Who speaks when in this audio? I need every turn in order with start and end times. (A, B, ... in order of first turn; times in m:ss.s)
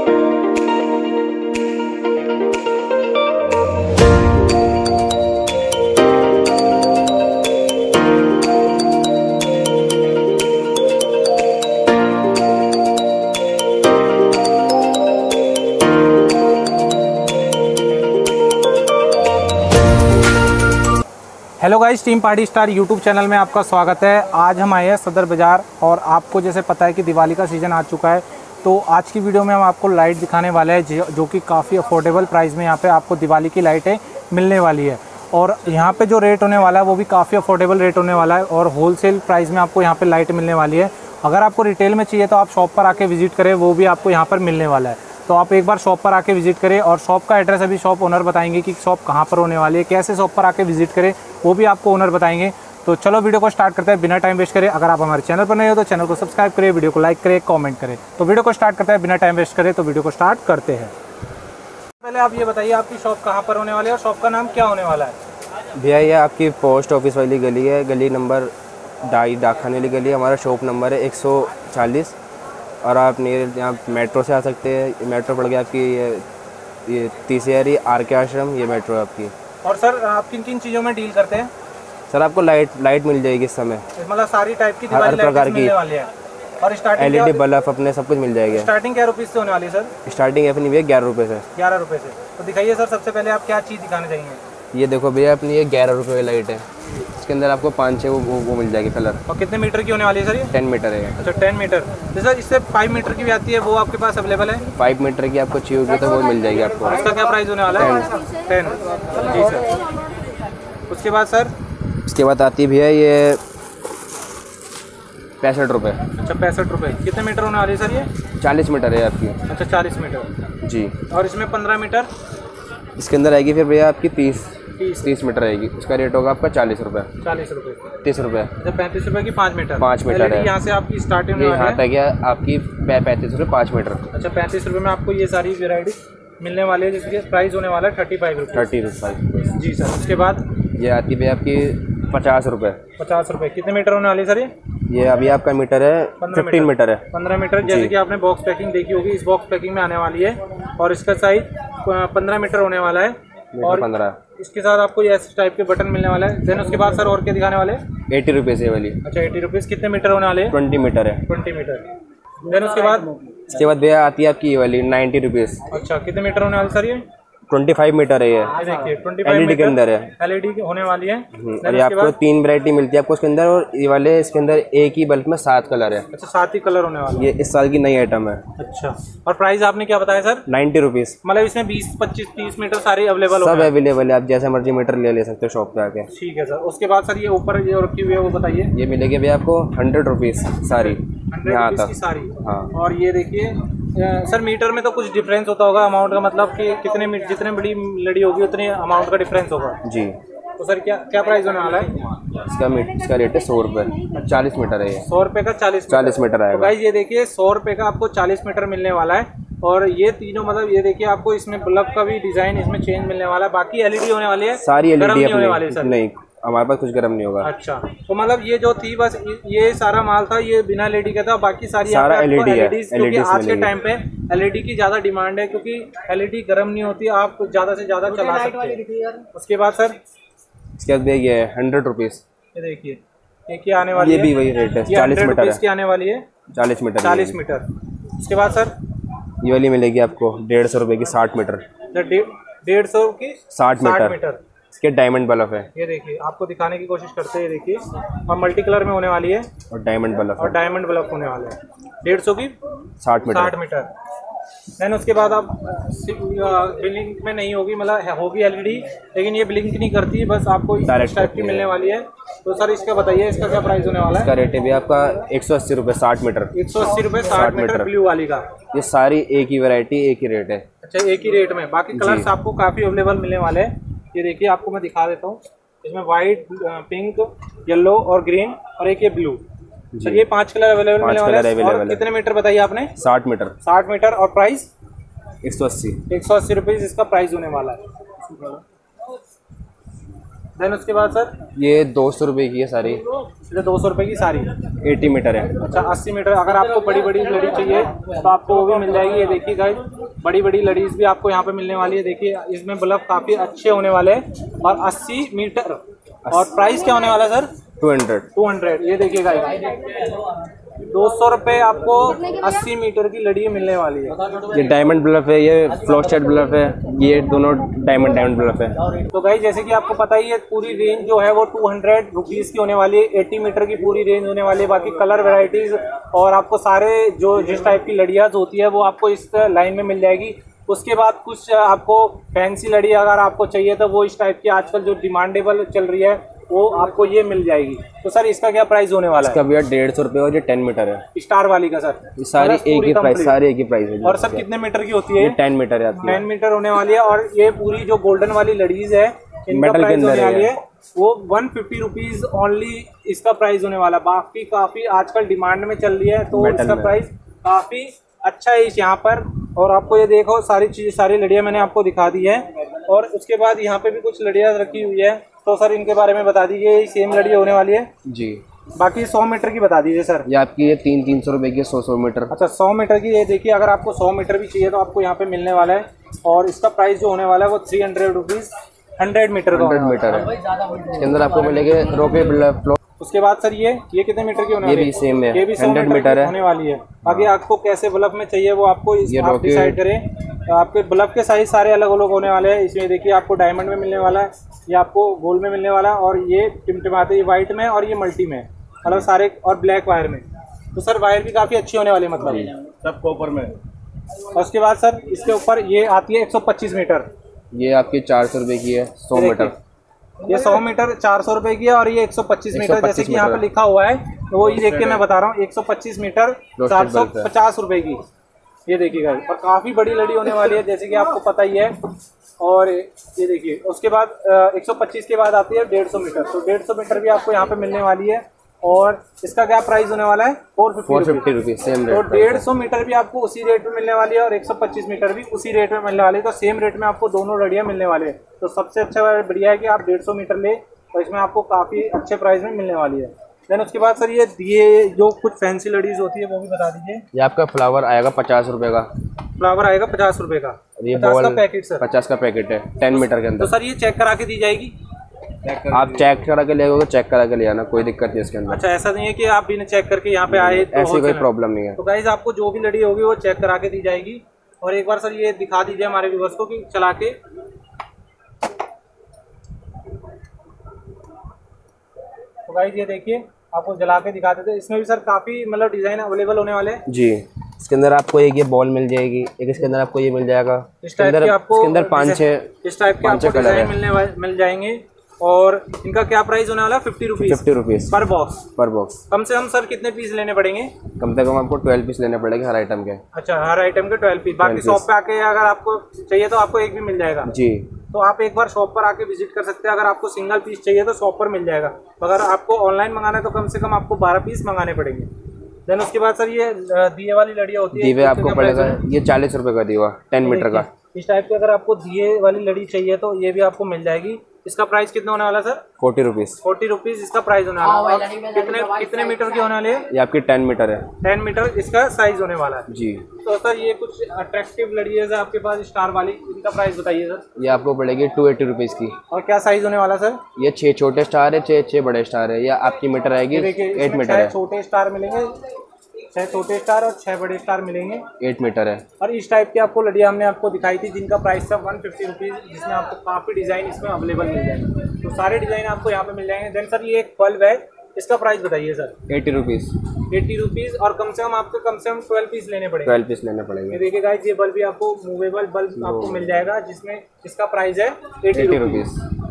0:21.6-1:00.9 A
1:02.0-1:05.2 A
1:05.8-1:08.5 B
1:09.0-1:12.2 B
1:12.8-1:16.2 B
1:16.8-1:19.3 B
1:19.6-1:21.5 A
1:22.1-1:23.8 B
1:24.0-1:26.1 A
1:24.9-1:25.7 B
1:26.6-1:27.4 A
1:27.0-1:28.7 B
1:28.5-1:29.9 A
1:30.0-1:31.4 B
1:31.6-1:34.4 A
1:34.7-1:36.6 B
1:37.1-1:39.2 B
1:39.3-1:40.5 A
1:40.5-1:41.1 B
1:41.2-1:44.6 A
1:44.8-1:47.2 B
1:46.8-1:49.7 A
1:47.7-1:48.1 B
1:50.9-1:51.5 A
1:52.0-1:53.4 B
1:55.4-1:56.0 B
1:56.2-1:58.1 A
1:58.4-1:59.4 B
1:59.5-2:00.2 A
2:00.6-2:00.9 B
2:01.1-2:02.1 A
2:03.0-2:07.1 B
2:04.8-2:05.2 A
2:07.2-2:07.8 A
2:08.0-2:08.5 B
2:08.6-2:11.8 A
2:09.8-2:10.5 B
2:11.4-2:14.0 B
2:14.1-2:18.7 A
2:18.5-2:19.5 B
2:19.5-2:20.4 A
2:20.8-2:22.8 B
2:23.0-2:24.5 A
2:24.9-2:27.0 B
2:26.2-2:37.8 A
2:27.6-2:27.9 B
2:33.6-2:34.2 B
2:38.1-2:39.0 B
2:39.0-2:40.6 A
2:40.5-2:41.2 B
2:41.2-2:41.9 A
2:42.4-2:43.1 A
2:43.5-2:45.6 B
2:45.7-2:47.0 A
2:47.5-2:48.6 B
2:48.6-2:52.2 A
2:49.2-2:50.1 B
2:51.3-2:56.1 B
2:56.1-2:57.3 A
2:57.1-2:58.4 B
2:58.6-3:00.4 A
3:00.5-3:01.2 B
3:01.2-3:03.7 A
3:03.3-3:06.1 B
3:06.1-3:08.7 A
3:08.7-3:12.7 B
3:10.7-3:19.8 A
3:19.8-3:20.2 B
3:20.6-3:21.9 A
3:22.4-3:25.0 B
3:25.0-3:36.0 A
3:25.9-3:26.7 B
3:34.5-3:37.5 B
3:37.4-3:50.0 A
3:41.8-3:43.7 B
3:48.7-3:49.2 C
3:50.8-3:52.2 B
3:52.5-3:56.2 A
3:54.0-3:55.6 B
3:56.5-3:57.4 B
3:57.0-3:58.7 A
3:59.4-4:01.6 B
4:01.9-4:04.4 A
4:03.5-4:04.2 B
4:04.7-4:05.7 B
4:05.7-4:09.5 A
4:09.7-4:10.6 B
4:10.4-4:12.5 A
4:13.0-4:13.5 B
4:13.2-4:13.9 A
4:14.8-4:24.3 A
4:20.8-4:21.8 B
4:24.1-4:26.5 B
4:26.5-4:28.5 A
4:27.3-4:27.9 B
4:28.7-4:30.6 B
4:30.8-4:39.4 A
4:31.9-4:32.3 B
4:39.9-4:40.2 B
4:40.0-4:42.9 A
4:41.0-4:42.0 B
4:43.0-4:43.5 B
4:43.6-4:44.7 A
4:45.4-4:46.0 B
4:46.1-4:47.8 A
4:50.6-4:51.3 A
4:51.6-4:53.0 B
4:53.5-4:54.5 A
4:54.8-4:55.5 B
4:55.6-5:07.5 A
5:06.3-5:06.5 B
5:07.8-5:08.3 B
5:08.3-5:09.9 A
5:10.8-5:14.2 A
5:14.4-5:18.8 B
5:19.1-5:39.4 A
5:39.2-5:41.0 B
5:41.1-5:43.4 A
5:42.2-5:44.5 B
5:44.0-5:45.4 A
5:45.2-5:46.2 B
5:46.0-6:07.9 A
5:49.5-5:50.5 B
5:56.3-5:57.0 B
6:08.0-6:08.4 B
6:08.8-6:10.3 A
6:10.3-6:12.3 B
6:12.3-6:20.1 A
6:19.5-6:22.8 B
6:23.0-6:42.5 A
6:24.6-6:26.3 B
6:27.0-6:27.3 B
6:29.1-6:29.8 B
6:42.2-6:42.5 B
6:42.9-6:43.4 C
6:44.3-6:47.1 A
6:47.5-6:49.5 B
6:49.1-6:49.6 A
6:50.2-6:58.0 A
6:52.5-6:53.4 B
6:54.6-6:55.0 B
6:56.6-6:57.3 B
6:58.7-7:01.8 A
7:02.4-7:11.2 A
7:10.8-7:12.4 B
7:11.9-7:27.0 A
7:27.1-7:28.9 B
7:29.4-7:31.8 A
7:30.8-7:33.5 B
7:32.9-7:34.8 A
7:35.7-7:38.6 B
7:38.5-7:47.2 A
7:40.3-7:41.8 B
7:52.4-7:56.8 A
7:56.9-8:02.5 B
8:00.8-8:08.4 A
8:03.0-8:03.8 B
8:07.2-8:08.0 B
8:08.6-8:09.0 B
8:09.1-8:10.7 A
8:11.0-8:13.0 B
8:13.1-8:17.3 A
8:14.4-8:14.8 B
8:17.3-8:17.7 B
8:17.9-8:25.1 A
8:25.7-8:28.8 A
8:27.8-8:30.7 B
8:30.2-8:35.6 A
8:35.8-8:36.4 B
8:36.4-8:39.9 A
8:37.9-8:38.9 C
8:39.9-8:40.9 B
8:41.0-8:47.2 A
8:42.7-8:43.0 B
8:47.4-8:48.9 B
8:49.1-8:50.2 A
8:50.4-8:54.3 B
8:53.3-8:55.3 A
8:56.1-8:58.0 A
8:58.2-8:58.8 B
8:59.0-9:08.9 A
9:09.1-9:09.7 B
9:10.1-9:13.0 A
9:12.8-9:13.8 B
9:13.7-9:18.9 A
9:15.8-9:16.3 B
9:18.3-9:19.0 B